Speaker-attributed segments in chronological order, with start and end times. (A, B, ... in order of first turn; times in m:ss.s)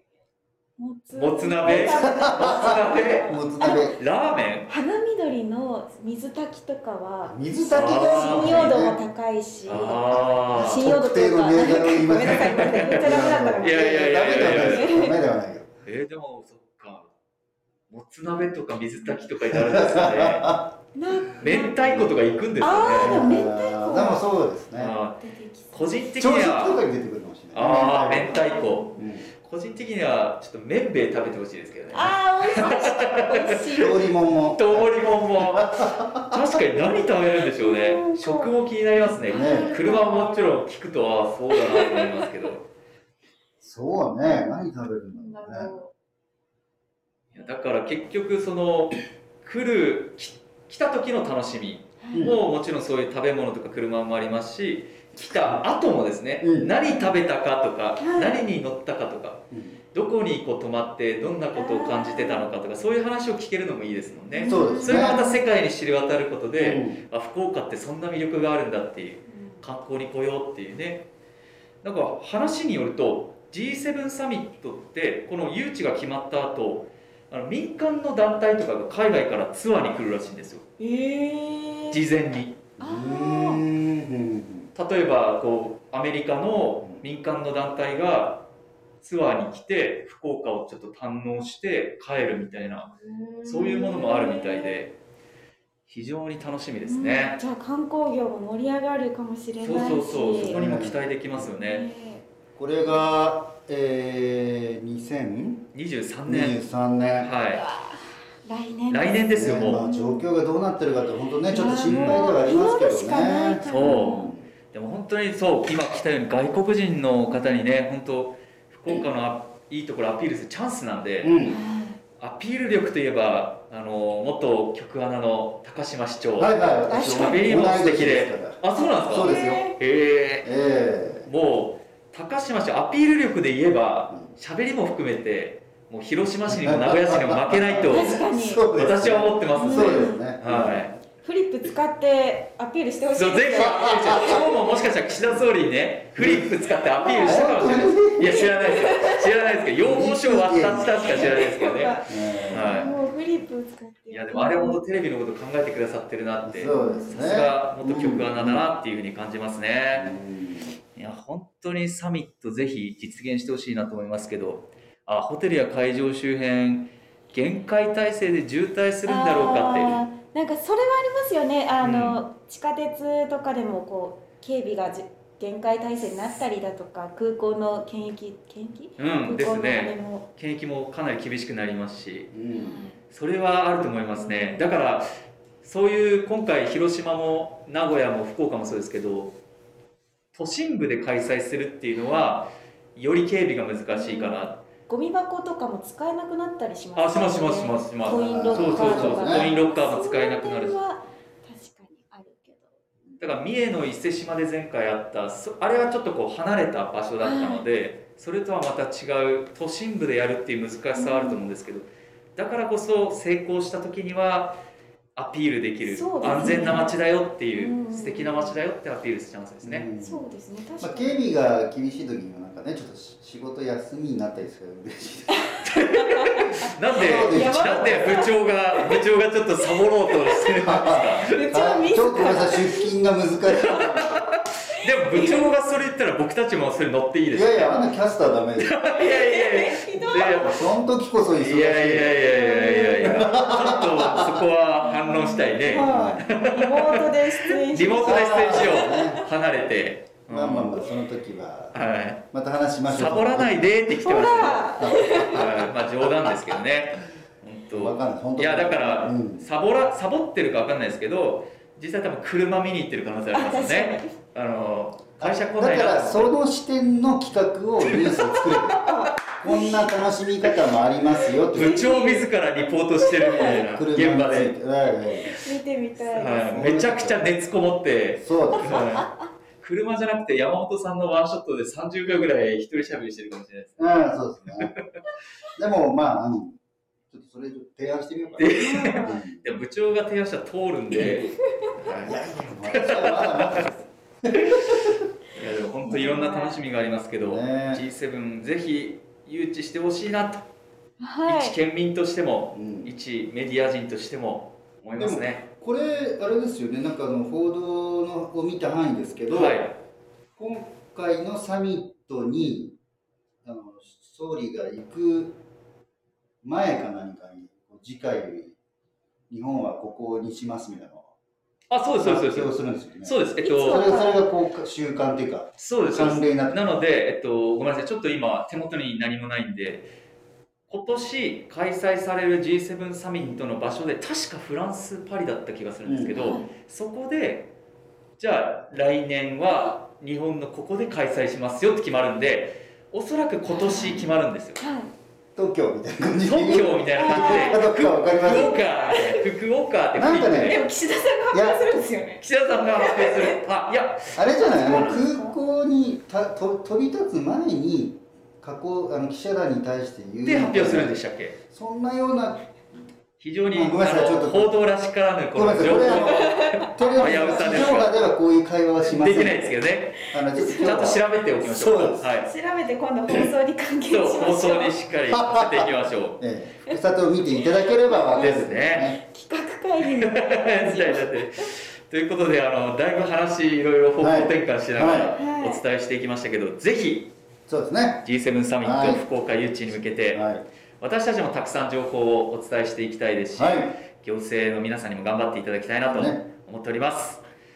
0:00.8-0:04.0 A
0:01.2-0:03.4 B
0:01.6-0:04.0 C
0:03.9-0:04.7 B
0:04.7-0:13.9 A
0:07.2-0:09.0 C
0:07.7-0:08.7 B
0:09.6-0:10.8 B
0:09.6-0:15.7 C
0:12.2-0:14.9 B
0:14.5-0:15.1 A
0:15.8-0:17.1 B
0:17.9-0:20.6 B
0:19.5-0:20.7 C
0:20.9-0:22.0 A
0:21.2-0:23.2 B
0:21.8-0:25.0 C
0:22.6-0:24.3 A
0:24.7-0:25.2 B
0:25.2-0:26.1 A
0:25.7-0:26.8 B
0:26.2-0:29.3 C
0:27.5-0:28.9 B
0:28.0-0:29.0 A
0:29.4-0:33.9 B
0:31.9-0:34.0 A
0:33.7-0:36.4 C
0:34.5-0:42.7 B
0:37.5-0:40.6 A
0:39.2-0:39.8 C
0:41.6-0:42.3 A
0:43.6-0:45.7 C
0:45.1-0:45.9 A
0:47.3-1:11.1 B
0:52.0-0:52.4 A
0:52.1-0:52.4 C
0:55.2-0:55.6 C
0:56.4-0:56.7 C
0:58.0-0:58.4 A
0:59.5-0:59.8 C
1:01.5-1:02.5 A
1:04.3-1:05.4 A
1:04.5-1:05.2 C
1:06.5-1:07.0 C
1:09.3-1:09.6 A
1:11.8-1:20.7 B
1:20.8-1:22.0 A
1:21.9-1:22.6 B
1:22.8-1:24.7 C
1:22.8-1:23.6 A
1:24.7-1:28.5 B
1:29.0-1:32.9 B
1:32.6-1:34.8 A
1:33.4-1:35.0 B
1:35.9-1:37.4 B
1:36.8-1:40.6 A
1:39.6-1:41.9 B
1:40.4-1:41.5 C
1:41.5-1:42.2 A
1:42.6-1:45.7 C
1:45.7-1:46.6 B
1:46.3-1:47.3 C
1:47.2-1:47.6 B
1:47.6-1:50.3 A
1:48.9-1:49.8 B
1:49.3-1:54.5 C
1:51.5-1:54.3 A
1:51.8-1:52.3 B
1:53.7-2:01.3 B
1:57.3-1:57.6 A
2:01.2-2:01.6 C
2:01.4-2:02.0 A
2:02.2-2:10.5 B
2:06.4-2:09.7 C
2:06.9-2:07.6 A
2:08.7-2:09.8 A
2:10.4-2:11.3 C
2:11.2-2:20.9 B
2:16.4-2:21.0 C
2:17.9-2:18.6 A
2:19.5-2:20.2 A
2:21.2-2:24.6 A
2:23.1-2:32.9 B
2:24.0-2:24.4 C
2:25.1-2:25.5 C
2:26.2-2:26.5 C
2:27.0-2:27.5 A
2:27.2-2:28.5 C
2:28.2-2:29.2 A
2:29.8-2:31.4 C
2:31.0-2:34.8 A
2:32.1-2:33.0 C
2:34.1-2:40.1 B
2:36.4-2:38.7 C
2:36.6-2:37.2 A
2:39.9-2:40.8 C
2:40.9-2:50.0 B
2:49.0-3:00.3 A
2:51.8-2:52.2 B
2:59.0-3:02.3 B
3:02.3-3:02.8 C
3:02.5-3:03.0 A
3:03.1-3:05.1 B
3:04.1-3:04.7 A
3:05.6-3:09.4 B
3:10.3-3:14.6 B
3:11.9-3:12.3 A
3:13.9-3:22.7 A
3:17.0-3:20.8 B
3:18.0-3:19.5 C
3:23.2-3:34.6 B
3:27.2-3:27.6 A
3:30.9-3:31.4 A
3:35.2-3:39.9 B
3:35.8-3:37.0 A
3:37.5-3:38.6 A
3:39.6-3:40.2 C
3:40.0-3:41.2 A
3:40.8-3:45.6 C
3:45.3-3:49.0 A
3:45.6-3:51.4 B
3:46.9-3:48.1 C
3:49.6-3:50.6 A
3:50.6-3:54.2 C
3:51.2-3:52.9 A
3:53.7-3:57.9 B
3:54.7-3:55.5 A
3:57.3-3:58.8 C
3:58.6-4:00.7 B
3:58.9-4:00.6 A
4:00.3-4:02.3 C
4:01.2-4:10.8 B
4:02.2-4:03.3 A
4:03.0-4:04.4 C
4:04.8-4:09.0 A
4:05.7-4:06.2 C
4:08.0-4:09.2 C
4:10.3-4:11.8 C
4:11.7-4:12.2 B
4:12.3-4:13.6 C
4:12.9-4:26.3 B
4:14.0-4:15.6 A
4:14.8-4:15.6 C
4:17.7-4:19.5 C
4:23.3-4:24.2 A
4:25.2-4:31.8 C
4:27.9-4:29.0 B
4:28.7-4:30.0 A
4:31.5-4:32.3 A
4:31.5-4:34.6 B
4:33.0-4:33.6 A
4:33.2-4:35.3 C
4:35.3-4:36.7 A
4:36.0-4:44.0 B
4:36.4-4:37.3 C
4:38.2-4:38.9 C
4:38.7-4:39.3 A
4:43.8-4:44.7 C
4:45.6-4:46.6 C
4:47.1-4:49.4 C
4:48.4-4:52.2 B
4:48.5-4:49.2 A
4:50.9-4:51.8 A
4:52.0-4:54.9 C
4:52.7-4:53.7 B
4:54.3-5:00.5 B
4:55.8-4:56.4 C
4:55.9-4:56.6 A
4:57.2-4:57.8 C
5:01.0-5:01.6 A
5:01.2-5:05.5 B
5:02.5-5:02.9 C
5:05.0-5:09.7 C
5:09.3-5:09.8 B
5:10.4-5:12.8 C
5:13.4-5:15.4 C
5:16.4-5:18.5 C
5:19.3-5:21.1 C
5:21.7-5:23.9 B
5:22.0-5:26.6 C
5:23.4-5:24.2 A
5:25.6-5:29.9 B
5:30.7-5:37.5 B
5:35.8-5:36.2 C
5:36.1-5:36.5 A
5:38.2-5:44.6 B
5:43.5-5:44.0 A
5:43.8-5:44.2 C
5:44.6-5:44.9 A
5:45.4-5:48.6 C
5:46.2-5:50.6 B
5:46.9-5:47.6 A
5:48.5-5:49.3 A
5:49.9-5:50.6 C
5:50.4-5:53.4 A
5:51.3-5:51.7 C
5:52.2-5:55.1 B
5:54.1-6:01.0 C
5:54.4-5:55.4 A
6:00.2-6:01.4 B
6:01.5-6:02.4 C
6:03.2-6:07.9 B
6:03.5-6:04.6 C
6:05.3-6:12.1 C
6:06.0-6:07.3 A
6:08.8-6:12.3 B
6:12.2-6:14.8 A
6:13.9-6:16.2 B
6:15.1-6:19.0 C
6:17.9-6:18.4 A
6:18.1-6:19.0 B
6:19.0-6:21.5 A
6:19.8-6:27.1 B
6:24.0-6:25.1 C
6:25.1-6:25.6 A
6:27.5-6:28.0 C
6:28.0-6:30.2 B
6:28.6-6:29.0 C
6:30.0-6:30.4 C
6:30.8-6:37.2 B
6:33.3-6:33.7 C
6:35.8-6:36.2 C